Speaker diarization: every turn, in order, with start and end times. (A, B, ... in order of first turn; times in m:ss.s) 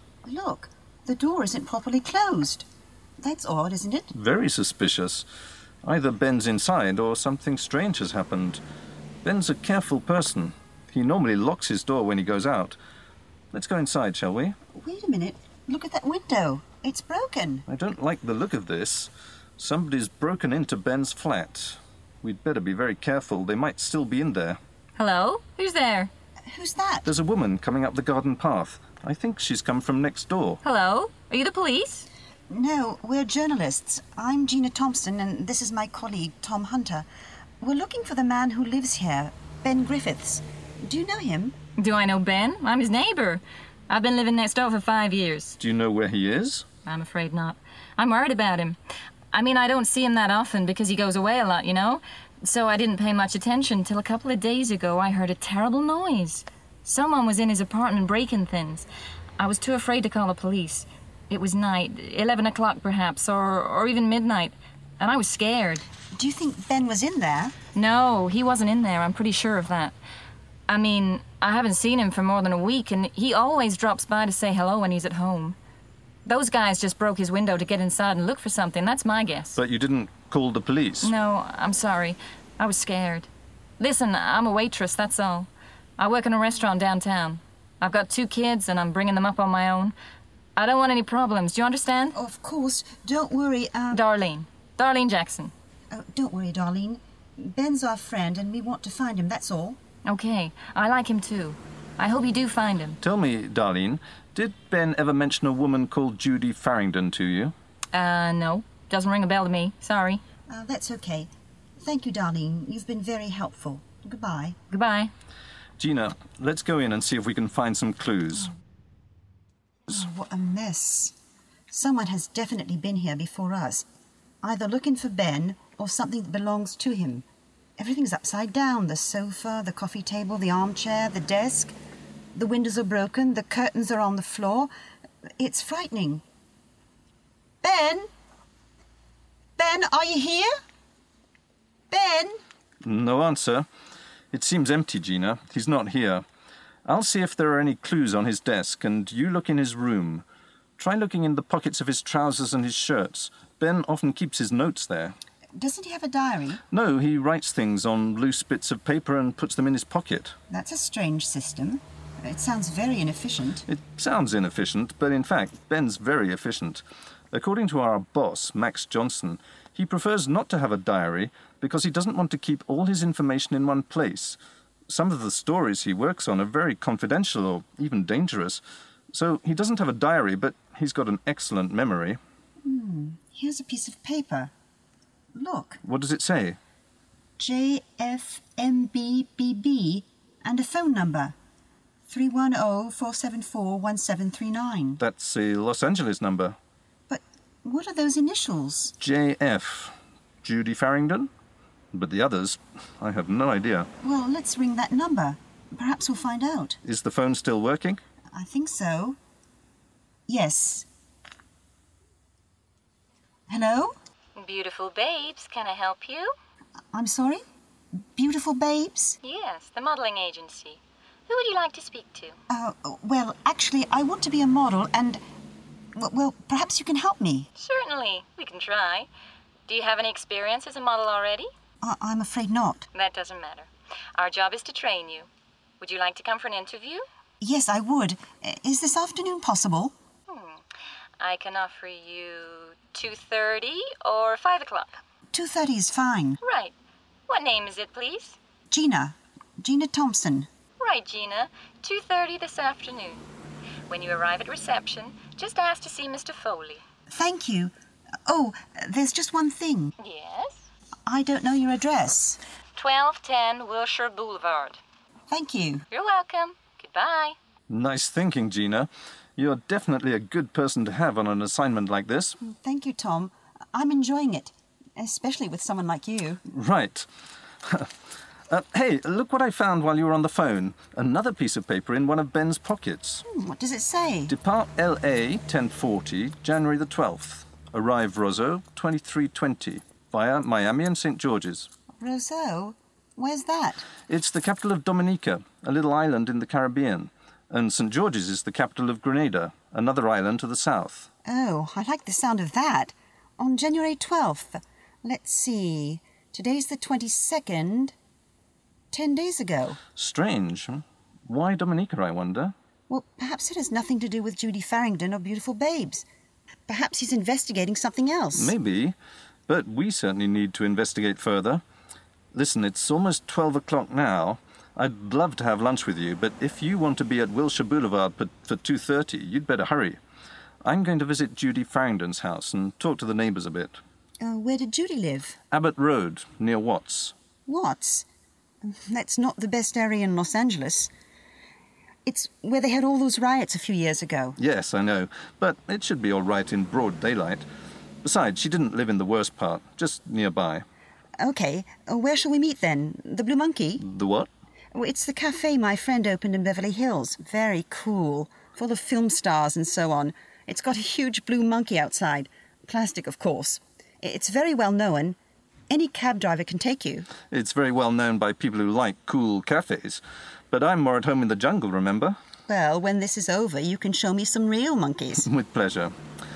0:00.2-0:02.7 A
0:03.2-0:04.1 A
0:04.1-0:05.2 B
0:05.8-0:08.6 B
0:09.2-0:12.8 B
0:13.5-0:14.6 B
0:14.8-0:17.6 A
0:17.7-0:24.6 B
0:25.0-0:26.1 C
0:26.5-0:27.1 A
0:27.0-0:30.6 B
0:30.6-0:32.0 C
0:32.5-0:37.1 A
0:37.6-0:41.6 A
0:41.8-0:45.6 C
0:45.6-0:46.6 B
0:46.8-0:48.8 C
0:49.3-0:58.9 C
0:59.4-1:05.9 C
1:06.1-1:07.6 A
1:07.7-1:09.9 C
1:10.7-1:15.6 C
1:16.2-1:19.6 C
1:19.6-1:21.1 B
1:21.0-1:29.9 C
1:30.6-1:32.2 C
1:32.1-1:34.0 A
1:33.9-1:35.5 C
1:35.9-1:39.8 A
1:40.0-1:43.0 C
1:43.0-1:47.5 B
1:47.9-1:50.2 C
1:50.5-1:51.3 A
1:51.8-1:54.6 A
1:54.7-1:55.1 C
1:55.8-1:58.5 B
1:59.9-2:01.1 A
2:01.7-2:03.9 A
2:04.4-2:07.2 A
2:07.8-2:11.8 A
2:12.3-2:14.7 A
2:15.4-2:16.2 A
2:17.6-2:18.1 A
2:19.6-2:20.5 A
2:21.9-2:22.4 A
2:22.8-2:23.7 B
2:24.3-2:26.2 B
2:26.9-2:30.2 B
2:30.8-2:35.2 B
2:35.6-2:36.6 A
2:36.7-2:40.3 B
2:40.5-2:43.6 A
2:43.7-2:54.4 B
2:54.9-3:02.2 B
3:02.6-3:04.5 A
3:05.3-3:05.8 A
3:05.8-3:06.6 B
3:07.4-3:11.3 A
3:12.1-3:15.0 A
3:15.0-3:16.6 B
3:17.1-3:19.0 A
3:19.0-3:21.3 B
3:21.9-3:23.9 B
3:24.0-3:26.8 A
3:26.8-3:28.0 B
3:28.3-3:29.2 A
3:30.3-3:30.9 A
3:33.5-3:33.9 A
3:34.4-3:36.3 C
3:36.9-3:37.4 A
3:38.2-3:39.2 A
3:39.2-3:42.4 C
3:42.5-3:45.2 A
3:46.0-3:47.5 A
3:47.6-3:49.1 C
3:49.7-3:51.5 C
3:51.8-3:52.9 A
3:52.9-3:55.3 C
3:55.8-3:57.1 C
3:57.4-3:59.9 A
4:00.3-4:00.6 C
4:01.2-4:05.0 C
4:05.3-4:06.4 A
4:06.4-4:06.7 C
4:07.3-4:08.4 C
4:08.7-4:10.5 A
4:10.8-4:13.2 C
4:13.9-4:16.8 C
4:17.1-4:17.7 A
4:18.2-4:19.9 A
4:20.0-4:20.6 C
4:21.1-4:22.4 A
4:22.8-4:24.8 C
4:25.3-4:25.8 A
4:25.9-4:27.4 C
4:27.7-4:32.4 B
4:32.4-4:36.4 A
4:36.5-4:37.1 B
4:37.6-4:37.9 B
4:38.5-4:43.2 B
4:43.2-4:44.3 A
4:44.3-4:51.7 B
4:52.0-4:53.9 A
4:54.1-5:01.1 B
5:01.2-5:07.9 A
5:08.9-5:09.8 A
5:10.0-5:12.5 B
5:12.9-5:16.0 A
5:16.7-5:18.5 A
5:18.3-5:18.9 B
5:19.5-5:21.6 B
5:22.3-5:30.0 B
5:30.6-5:33.8 B
5:34.2-5:35.4 A
5:35.5-5:37.1 B
5:37.5-5:38.1 A
5:38.6-5:40.9 A
5:42.1-5:44.4 A
5:44.4-5:47.4 B
5:48.0-5:50.6 B
5:51.2-5:53.8 A
5:53.8-5:54.3 B
5:54.7-6:05.2 A
6:05.7-6:07.1 A
6:07.3-6:12.2 B
6:12.5-6:15.3 A
6:15.2-6:15.9 B